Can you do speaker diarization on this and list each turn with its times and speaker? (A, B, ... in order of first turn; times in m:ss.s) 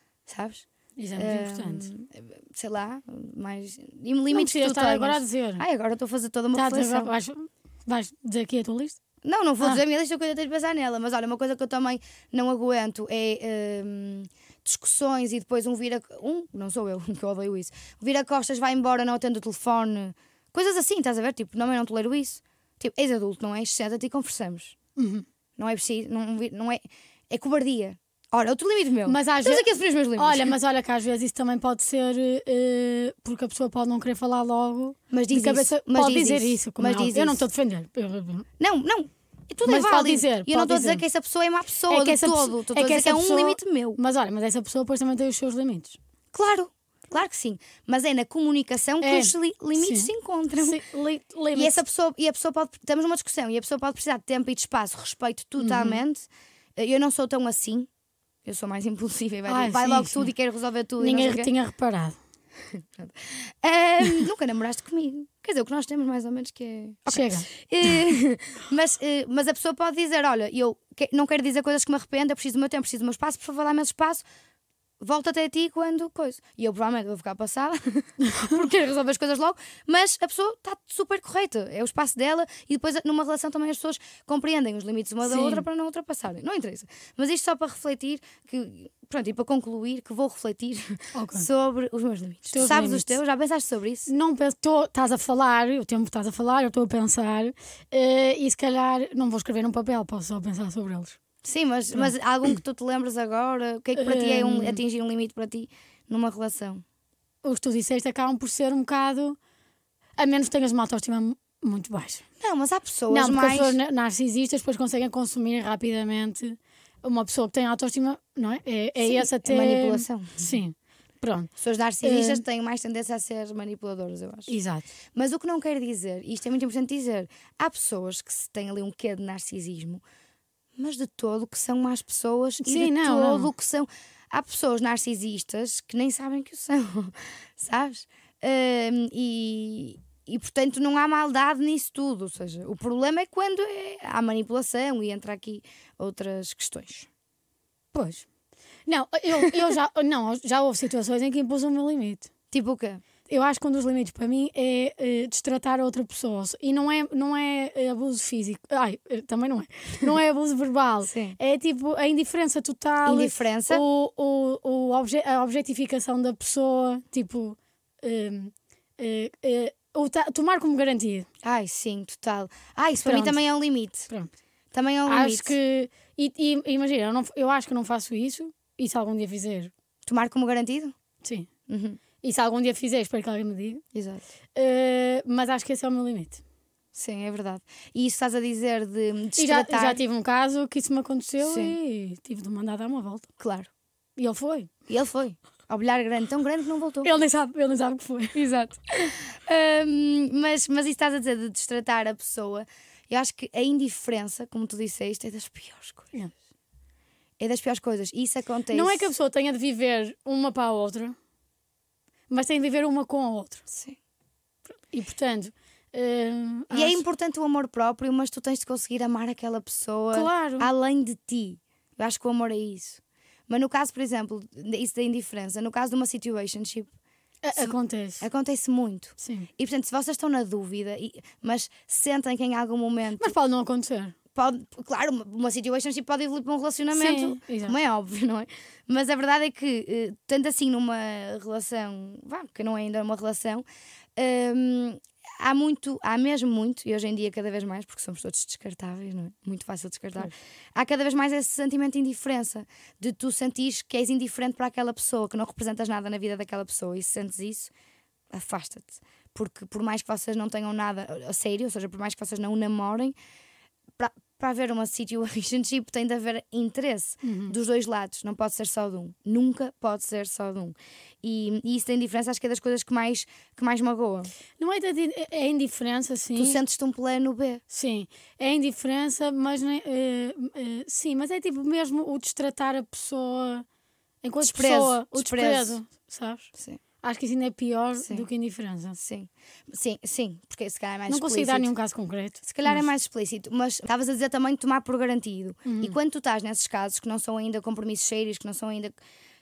0:00.3-0:07.1 A
0:01.0-0:01.9 B
0:04.3-0:05.6 B
0:06.5-0:09.0 B
0:09.2-0:24.7 A
0:25.0-0:25.2 B
0:25.6-0:30.5 A
0:29.0-0:38.4 B
0:35.1-0:37.4 A
0:38.6-0:44.0 A
0:39.6-0:41.0 B
0:41.9-0:46.0 B
0:46.3-0:50.8 A
0:49.0-0:51.8 B
0:51.5-0:57.9 A
0:55.6-0:56.0 B
0:58.4-1:01.5 A
0:59.5-1:00.3 B
1:01.0-1:02.2 B
1:02.7-1:14.2 A
1:07.1-1:08.0 B
1:15.0-1:34.1 A
1:25.2-1:25.6 B
1:31.1-1:31.5 B
1:32.5-1:33.2 B
1:34.1-1:41.2 B
1:41.4-1:46.8 A
1:41.9-1:42.5 B
1:44.0-1:44.8 B
1:47.4-1:49.4 B
1:50.2-1:52.2 B
1:52.4-1:53.8 A
1:53.1-2:01.5 B
1:59.0-2:00.5 A
2:01.6-2:04.5 A
2:02.0-2:02.4 B
2:04.5-2:04.8 B
2:05.1-2:10.0 A
2:10.8-2:27.1 A
2:12.6-2:13.5 B
2:27.9-2:28.2 B
2:28.9-2:32.3 B
2:32.5-2:33.0 A
2:33.3-2:51.3 B
2:41.0-2:41.4 A
2:43.0-2:43.8 A
2:51.4-2:54.1 A
2:53.0-2:53.4 B
2:54.7-2:55.5 A
2:55.0-2:59.7 B
3:00.0-3:00.9 A
3:01.2-3:01.5 B
3:01.7-3:02.0 A
3:02.2-3:03.8 B
3:03.9-3:04.2 A
3:04.5-3:06.4 B
3:06.9-3:10.0 A
3:09.4-3:13.3 B
3:11.4-3:11.7 A
3:13.4-3:13.7 A
3:14.2-3:14.7 B
3:14.9-3:17.1 A
3:17.0-3:18.4 B
3:18.3-3:26.1 A
3:27.4-3:29.1 A
3:28.7-3:31.2 B
3:32.3-3:33.6 B
3:33.7-3:34.0 A
3:34.9-3:37.0 B
3:36.7-3:46.9 A
3:40.1-3:40.7 B
3:47.4-3:48.2 B
3:47.5-3:53.3 A
3:49.2-3:49.5 B
3:53.2-3:54.1 B
3:54.3-4:03.6 A
3:56.9-3:57.8 B
4:04.2-4:17.7 A
4:18.3-4:23.1 A
4:24.0-4:34.3 A
4:27.2-4:27.5 B
4:34.6-4:36.6 B
4:36.4-4:37.6 A
4:37.7-4:43.6 B
4:44.2-4:46.5 B
4:44.4-4:45.8 A
4:47.0-4:49.0 B
4:48.0-4:48.2 A
4:49.0-4:51.7 A
4:51.1-4:52.9 B
4:52.4-4:58.9 A
4:55.6-4:56.0 B